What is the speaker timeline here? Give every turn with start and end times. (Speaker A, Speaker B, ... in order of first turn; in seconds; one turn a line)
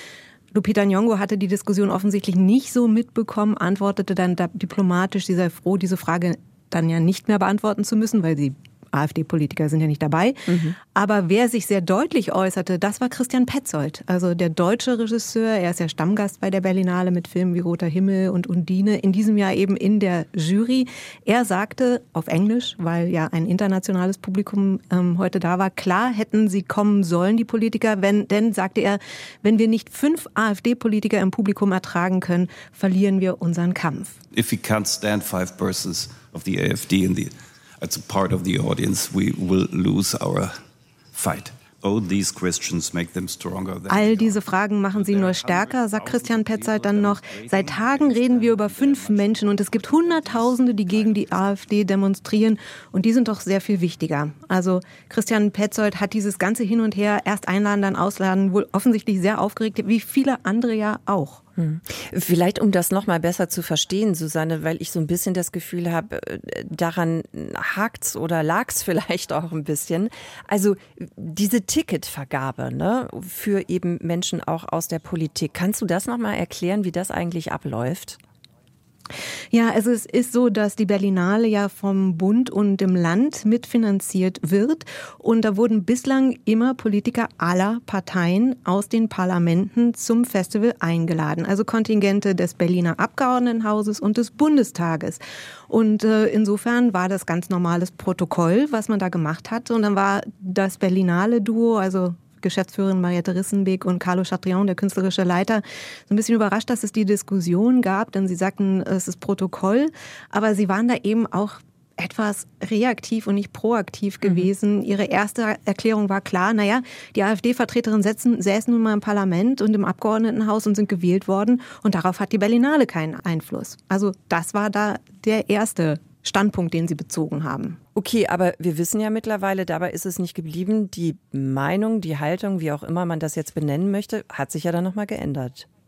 Speaker A: 0.5-34.2
Speaker B: 10.5-10.8
Speaker C: 34.3-40.5
Speaker C: 41.1-51.5
Speaker A: 43.9-61.4
Speaker B: 61.6-78.2
Speaker A: 79.5-127.8
Speaker B: 128.0-135.7